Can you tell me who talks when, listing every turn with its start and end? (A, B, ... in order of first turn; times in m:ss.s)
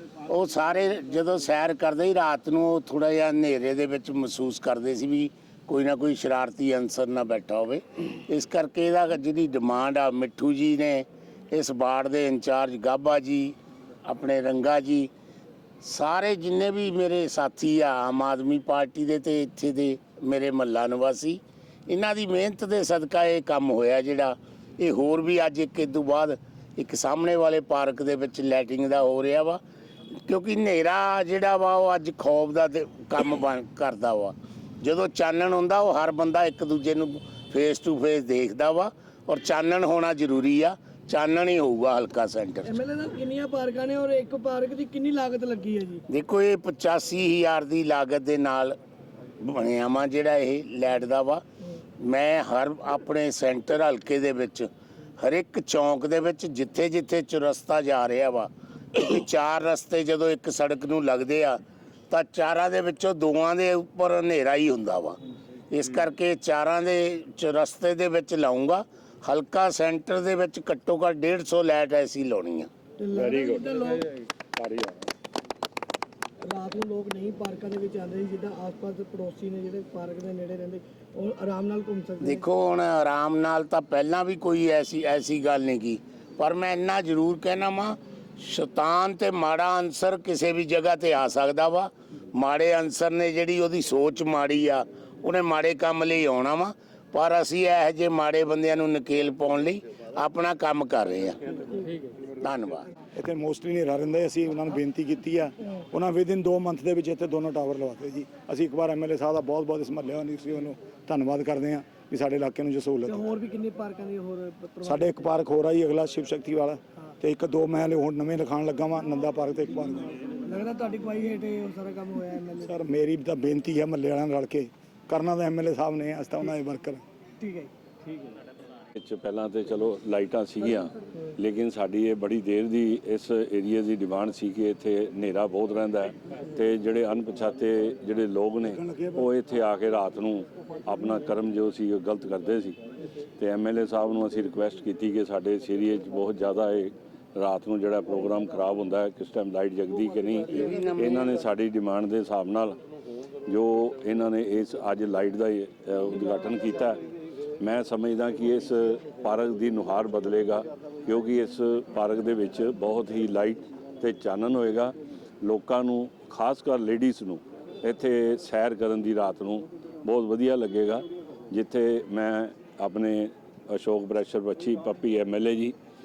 0:00.2-0:15.1 A
0:15.8-0:29.6 A
0:30.2-0:42.7 A
0:42.7-0:46.0 B
0:46.1-0:48.8 A
0:49.4-0:51.4 A
0:52.0-1:05.2 A
1:05.7-1:12.7 A
1:13.0-1:14.1 B
1:13.1-1:15.1 C
1:16.4-1:22.4 B
1:22.2-1:42.9 A
1:43.2-1:53.3 D
1:53.1-1:55.2 B
1:54.8-2:00.3 D
2:00.4-2:02.7 B
2:02.6-2:07.0 D
2:07.4-2:07.7 B
2:09.0-2:22.8 C
2:18.6-2:19.3 D
2:23.4-2:32.8 C
2:30.5-2:31.4 A
2:33.5-2:37.0 C
2:37.6-2:55.8 C